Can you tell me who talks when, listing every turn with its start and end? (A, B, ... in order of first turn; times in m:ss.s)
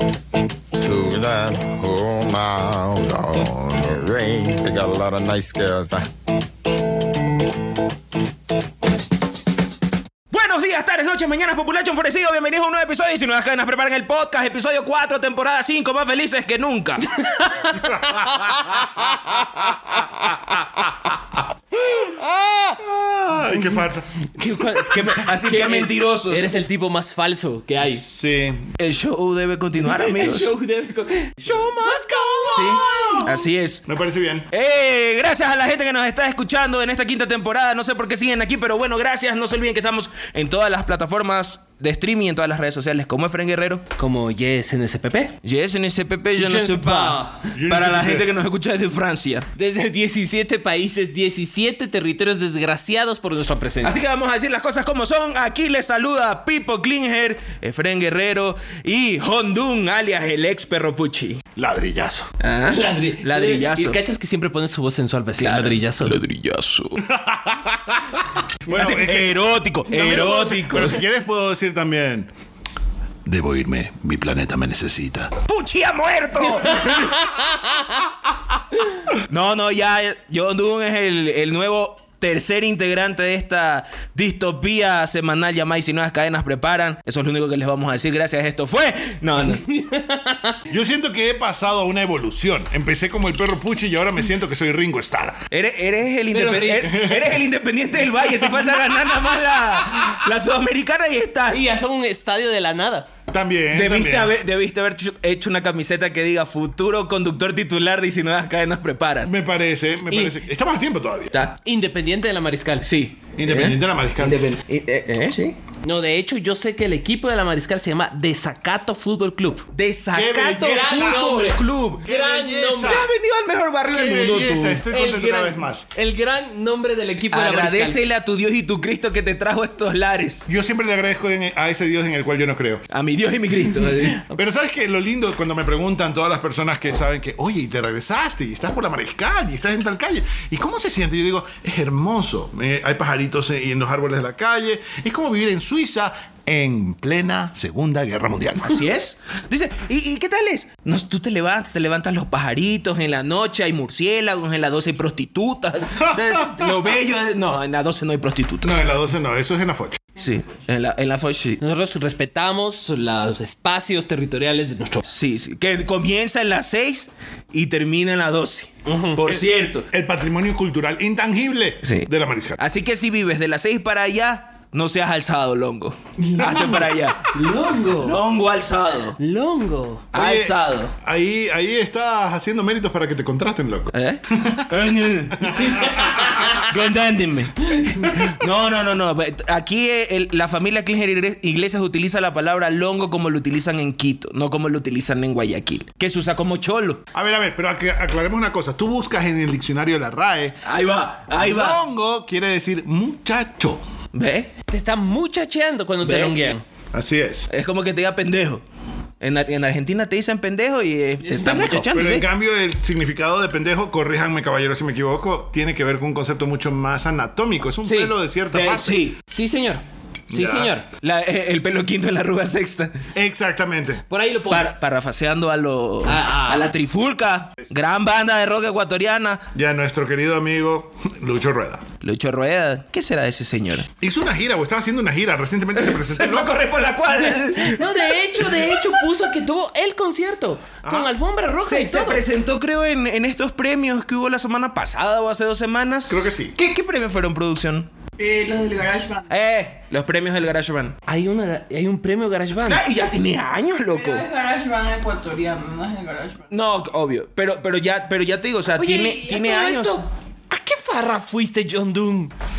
0:00.8-0:06.1 A
0:10.3-0:17.1 B
0:17.1-0:19.6 C
0:17.8-0:18.6 D
0:21.7-0:22.8 C
0:22.8-0:24.0 D
0:24.4-0:28.0 C
0:24.8-0:26.5 B
0:28.0-0:28.7 D
0:28.8-0:30.5 B
0:29.8-0:33.4 C
0:31.4-0:34.5 D
0:32.4-0:33.8 B
0:34.5-0:43.8 B
0:44.0-0:45.4 C
0:45.4-0:49.5 B
0:46.4-0:47.5 C
0:47.5-0:48.3 D
0:49.6-0:54.0 C
0:53.8-1:01.4 B
1:01.6-1:02.3 D
1:02.4-1:04.0 B
1:02.7-1:06.2 C
1:05.4-1:07.0 B
1:07.0-1:08.1 D
1:08.6-1:09.3 D
1:08.7-1:11.0 B
1:09.9-1:12.3 D
1:13.2-1:15.4 D
1:15.4-1:17.2 B
1:16.6-1:18.0 C
1:19.2-1:29.6 B
1:29.5-1:30.6 C
1:30.7-1:35.4 D
1:35.5-1:41.7 B
1:36.3-1:37.1 C
1:36.9-1:37.4 D
1:41.5-1:43.1 C
1:43.3-1:44.3 D
1:43.7-1:49.3 B
1:49.2-1:51.4 D
1:50.1-1:50.4 C
1:51.3-1:51.6 B
1:51.6-1:52.9 C
1:52.8-1:55.6 B
1:53.4-1:54.4 D
1:55.8-1:59.6 C
1:59.7-2:02.0 B
2:00.1-2:01.2 D
2:00.6-2:03.0 C
2:02.0-2:03.1 D
2:02.8-2:04.8 B
2:03.9-2:05.9 D
2:04.9-2:08.0 C
2:07.3-2:10.5 B
2:10.5-2:12.8 D
2:12.9-2:14.2 B
2:14.3-2:28.8 D
2:28.6-2:38.8 B
2:36.0-2:36.8 D
2:38.6-2:40.1 D
2:40.2-2:41.6 B
2:41.6-2:45.1 C
2:45.0-2:49.9 B
2:48.8-2:49.2 C
2:49.9-2:52.6 D
2:51.8-2:57.3 B
2:56.4-2:56.9 D
2:57.3-2:58.2 C
2:58.0-2:59.2 B
2:59.2-3:00.1 C
3:00.1-3:00.9 B
3:00.1-3:06.5 D
3:03.9-3:05.8 B
3:05.7-3:06.6 C
3:06.5-3:17.0 B
3:08.0-3:08.4 D
3:17.1-3:20.6 D
3:20.6-3:21.8 B
3:21.3-3:23.8 D
3:24.1-3:24.5 B
3:24.7-3:26.6 C
3:26.0-3:26.5 B
3:26.9-3:27.5 D
3:27.5-3:28.6 B
3:29.2-3:32.3 B
3:31.2-3:31.8 C
3:31.6-3:39.0 D
3:37.8-3:38.1 C
3:38.5-3:39.2 B
3:39.2-3:40.9 C
3:40.3-3:40.7 D
3:41.0-3:43.0 B
3:43.1-3:44.0 D
3:44.1-3:44.8 C
3:44.5-3:49.5 B
3:46.0-3:46.7 C
3:49.5-3:51.8 D
3:52.0-3:53.9 B
3:54.0-3:56.6 D
3:55.7-3:59.0 B
3:57.1-4:02.2 C
4:00.8-4:01.1 D
4:01.6-4:07.9 B
4:06.1-4:06.5 D
4:08.2-4:09.3 E
4:09.3-4:11.0 B
4:11.1-4:12.8 C
4:12.6-4:14.2 B
4:13.9-4:16.4 E
4:16.5-4:20.0 B
4:18.7-4:22.3 C